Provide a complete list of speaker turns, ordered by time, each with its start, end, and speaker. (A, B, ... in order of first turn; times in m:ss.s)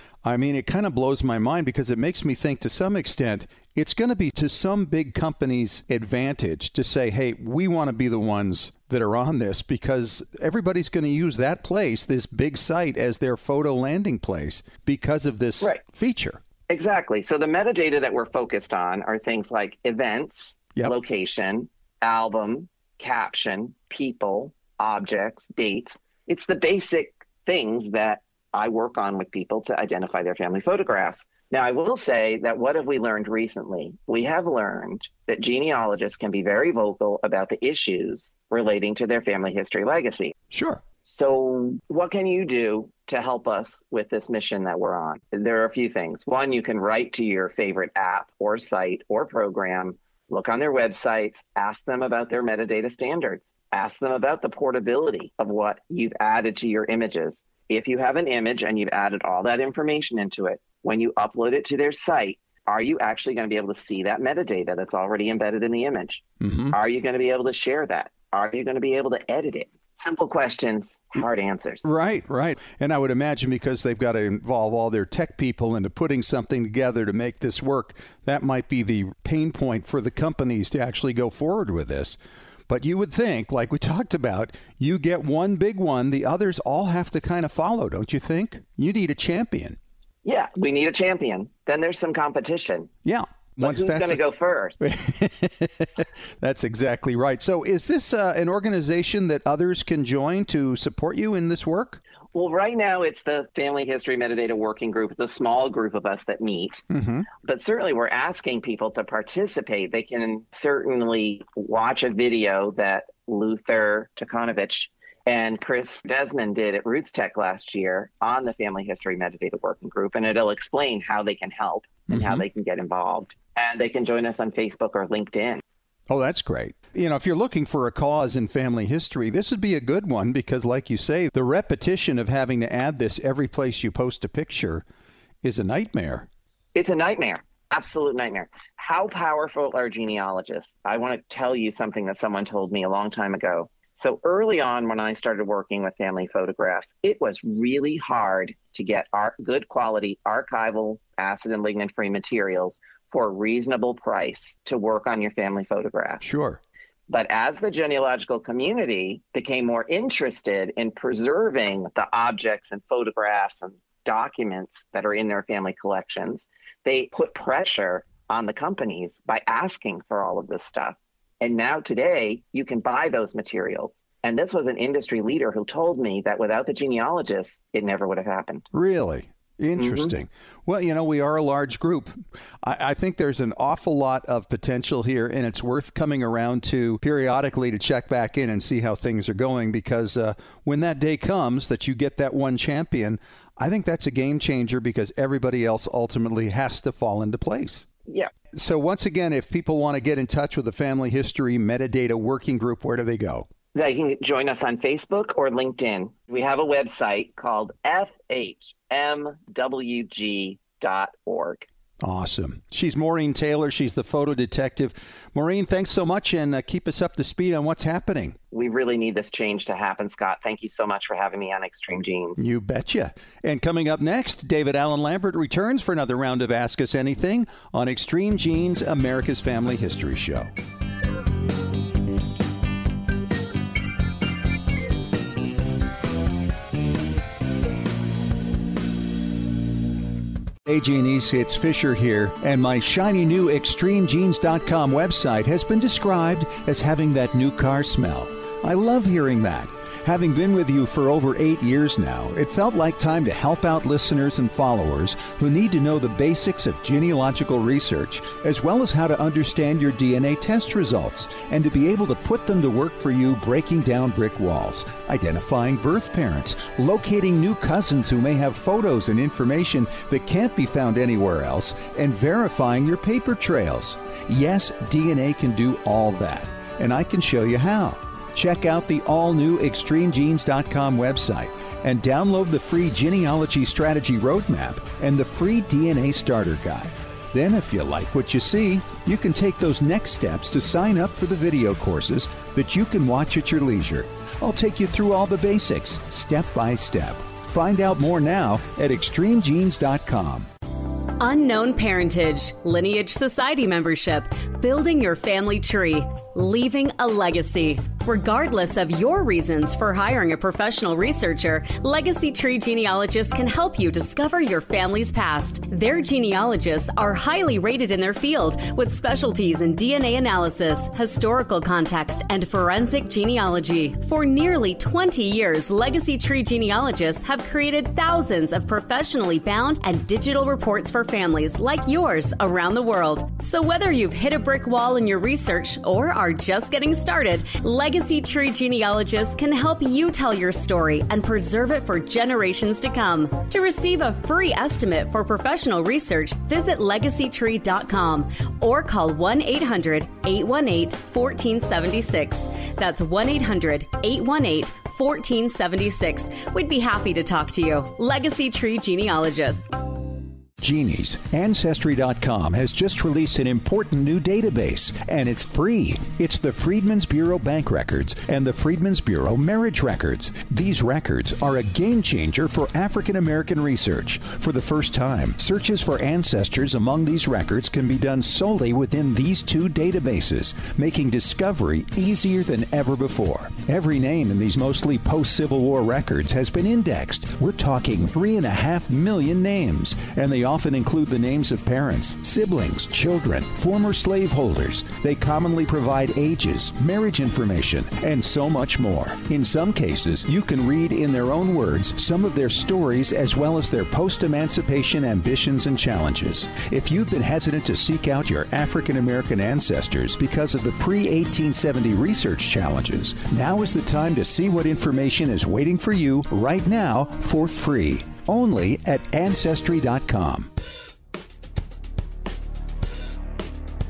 0:00.2-0:16.4 A
0:16.7-0:40.4 B
0:40.5-0:40.8 A
0:41.0-1:11.8 B
1:06.4-1:06.8 A
1:11.8-1:22.2 A
1:22.7-1:29.8 A
1:30.2-1:32.9 B
1:33.0-1:34.2 A
1:33.6-1:34.8 B
1:34.8-1:42.0 A
1:42.3-2:05.6 B
1:46.9-1:47.3 A
2:02.1-2:02.4 A
2:06.1-2:14.8 A
2:15.4-2:16.3 A
2:16.7-2:36.2 B
2:36.2-2:36.6 A
2:37.1-2:58.6 B
2:58.7-3:17.9 A
2:59.8-3:00.1 B
3:18.5-3:23.5 A
3:23.7-3:31.7 B
3:32.0-3:38.4 A
3:38.5-3:42.4 B
3:42.4-3:50.5 A
4:00.6-5:00.5 A
5:01.2-5:59.6 C
6:00.6-7:00.5 A